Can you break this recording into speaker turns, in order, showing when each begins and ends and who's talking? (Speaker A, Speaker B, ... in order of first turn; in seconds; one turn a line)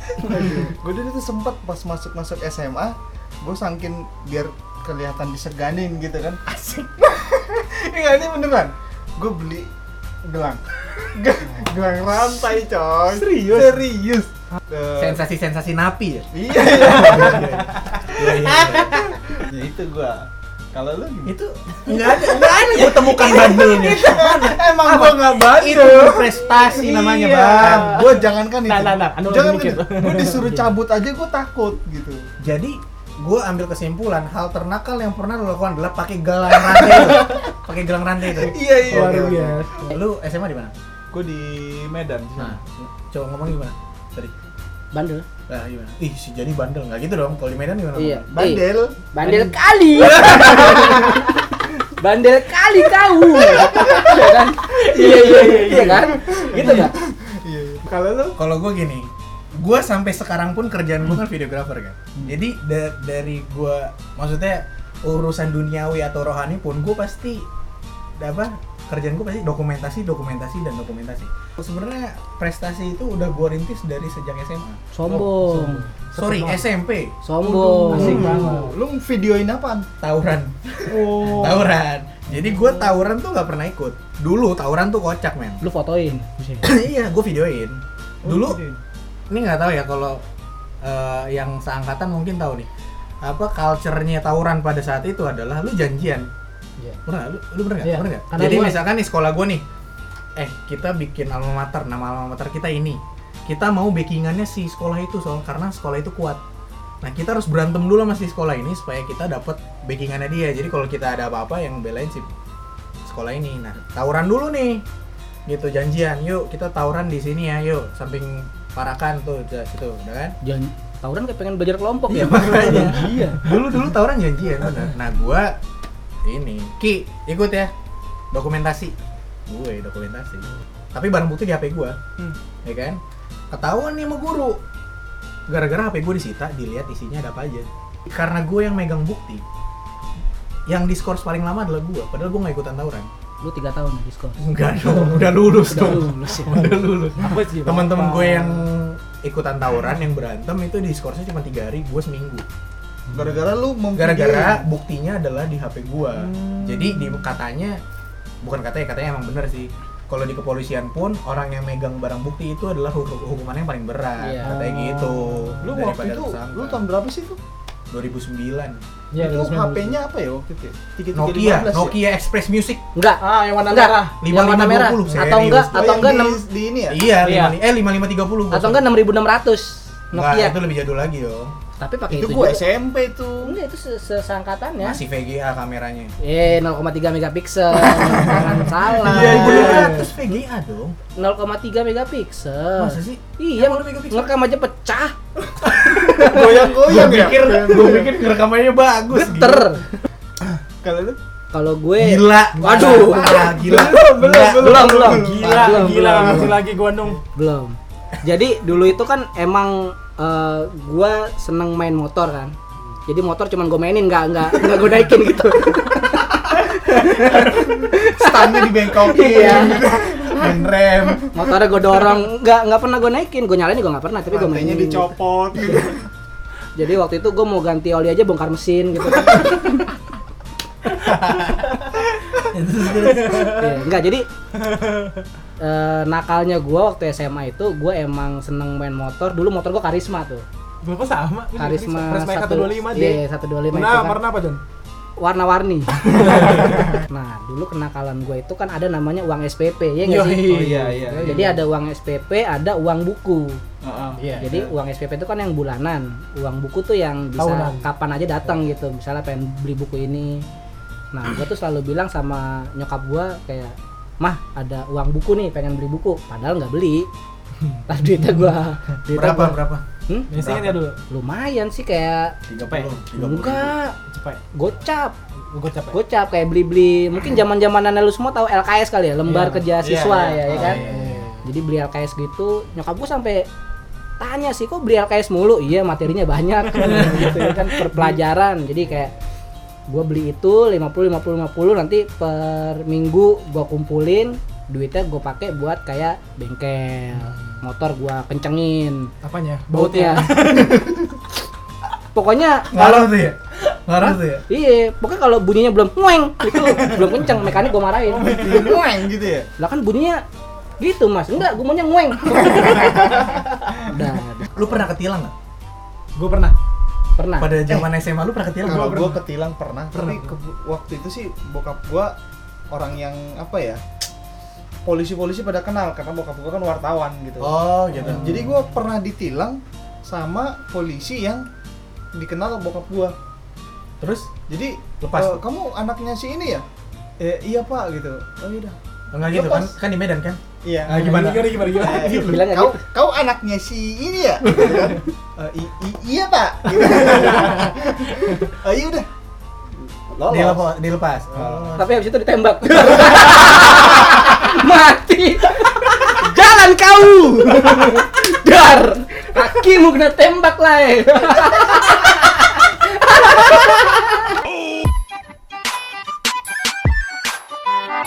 Speaker A: 0.2-9.7
Speaker A: 10.2-15.2
Speaker B: 13.1-13.8
Speaker C: 15.0-16.3
Speaker A: 16.3-17.6
Speaker C: 16.8-19.1
Speaker B: 16.8-17.5
Speaker B: 18.2-19.1
Speaker A: 18.6-21.4
Speaker C: 21.2-27.9
Speaker A: 21.9-26.9
Speaker B: 26.7-30.8
Speaker A: 27.5-32.3
Speaker C: 32.4-40.7
Speaker B: 36.6-37.4
Speaker A: 38.5-39.3
Speaker B: 38.5-39.9
Speaker A: 41.1-42.6
Speaker C: 42.4-44.3
Speaker D: 44.9-45.2
Speaker C: 45.5-48.3
Speaker D: 48.0-56.9
Speaker A: 48.3-49.0
Speaker B: 49.2-49.5
Speaker B: 54.9-56.1
Speaker A: 55.5-58.4
Speaker C: 58.4-67.5
Speaker C: 68.2-74.8
Speaker D: 74.9-75.8
Speaker B: 75.1-76.7
Speaker C: 76.1-77.1
Speaker D: 77.2-78.5
Speaker B: 77.4-78.8
Speaker A: 77.8-79.9
Speaker C: 77.9-78.5
Speaker C: 80.0-85.6
Speaker A: 80.9-81.7
Speaker D: 85.6-86.3
Speaker B: 86.4-86.7
Speaker C: 86.6-88.6
Speaker B: 88.2-88.8
Speaker C: 89.3-90.2
Speaker C: 90.8-92.7
Speaker C: 93.2-96.3
Speaker C: 97.1-99.6
Speaker B: 97.8-98.8
Speaker C: 100.4-106.4
Speaker C: 107.0-112.3
Speaker C: 113.0-114.8
Speaker C: 115.5-120.4
Speaker D: 120.4-123.0
Speaker C: 122.1-125.5
Speaker B: 122.3-123.6
Speaker C: 126.2-127.7
Speaker C: 128.3-128.9
Speaker C: 129.5-132.0
Speaker C: 132.6-133.0
Speaker C: 133.5-134.6
Speaker C: 135.5-139.4
Speaker C: 140.7-143.1
Speaker D: 143.4-146.8
Speaker C: 144.4-152.4
Speaker B: 147.1-148.7
Speaker A: 153.1-154.6
Speaker C: 153.9-157.8
Speaker A: 156.2-157.3
Speaker C: 158.4-166.8
Speaker D: 164.2-164.5
Speaker B: 164.4-165.6
Speaker A: 165.6-167.4
Speaker C: 167.9-168.8
Speaker B: 169.1-170.0
Speaker A: 169.2-172.0
Speaker C: 171.1-172.8
Speaker D: 172.9-176.4
Speaker B: 173.2-174.2
Speaker C: 174.2-176.1
Speaker B: 175.1-175.3
Speaker A: 175.7-177.0
Speaker C: 176.9-178.9
Speaker B: 177.2-177.6
Speaker D: 178.5-180.6
Speaker C: 180.1-181.5
Speaker D: 181.8-182.6
Speaker A: 182.1-183.6
Speaker D: 183.4-185.0
Speaker C: 184.8-186.1
Speaker D: 186.2-189.9
Speaker C: 188.0-191.0
Speaker B: 189.1-190.1
Speaker A: 189.4-189.8
Speaker D: 191.1-195.1
Speaker C: 192.8-194.3
Speaker C: 195.6-199.7
Speaker A: 196.2-198.1
Speaker D: 199.1-199.8
Speaker A: 200.8-201.2
Speaker D: 201.5-203.5
Speaker C: 202.0-205.0
Speaker B: 202.6-203.4
Speaker A: 203.0-206.5
Speaker D: 204.5-206.6
Speaker B: 204.8-207.2
Speaker D: 207.3-212.6
Speaker D: 213.1-219.8
Speaker C: 216.6-217.8
Speaker A: 217.9-221.3
Speaker C: 219.4-221.2
Speaker D: 221.3-225.9
Speaker A: 224.2-226.0
Speaker D: 226.8-230.0
Speaker C: 230.9-233.6
Speaker B: 232.9-233.8
Speaker D: 233.4-234.3
Speaker B: 234.6-235.2
Speaker D: 235.6-240.5
Speaker B: 240.8-244.6
Speaker D: 241.6-244.2
Speaker D: 245.2-253.6
Speaker B: 246.1-246.9
Speaker B: 250.0-251.6
Speaker A: 250.5-251.5
Speaker A: 253.8-254.2
Speaker B: 254.2-254.6
Speaker D: 254.4-260.4
Speaker B: 257.4-257.9
Speaker D: 261.1-267.1
Speaker D: 267.9-270.3
Speaker C: 269.1-270.8
Speaker B: 270.3-271.0
Speaker D: 271.1-272.4
Speaker C: 272.5-273.8
Speaker B: 272.6-273.0
Speaker D: 273.1-273.9
Speaker B: 274.1-274.4
Speaker D: 274.5-275.1
Speaker B: 275.5-276.0
Speaker D: 275.9-280.9
Speaker B: 279.2-279.7
Speaker A: 279.8-281.2
Speaker C: 280.5-281.2
Speaker B: 280.5-281.4
Speaker D: 281.4-283.5
Speaker D: 284.2-289.1
Speaker B: 286.7-288.2
Speaker D: 289.9-299.1
Speaker B: 299.2-301.1
Speaker D: 299.7-300.3
Speaker D: 302.1-303.1
Speaker C: 302.7-304.4
Speaker D: 304.0-308.5
Speaker B: 306.8-307.1
Speaker B: 308.2-308.8
Speaker A: 308.2-309.5
Speaker D: 309.6-310.2
Speaker D: 310.8-313.3
Speaker B: 312.3-313.5
Speaker D: 313.8-314.6
Speaker C: 314.5-315.3
Speaker B: 316.2-316.6
Speaker D: 317.2-317.6
Speaker C: 317.4-319.2
Speaker A: 318.6-322.1
Speaker B: 319.9-320.4
Speaker A: 322.7-323.8
Speaker A: 324.8-331.5
Speaker C: 327.4-328.5
Speaker A: 332.1-333.1
Speaker C: 334.0-334.3
Speaker A: 334.5-336.6
Speaker C: 335.0-335.4
Speaker A: 337.2-338.8
Speaker C: 339.1-341.6
Speaker A: 339.3-339.7
Speaker A: 340.6-341.0
Speaker B: 340.9-342.5
Speaker A: 341.7-349.1
Speaker D: 341.8-342.8
Speaker B: 347.1-347.7
Speaker A: 349.8-350.7
Speaker C: 350.3-351.8
Speaker A: 351.3-351.8
Speaker D: 351.8-364.3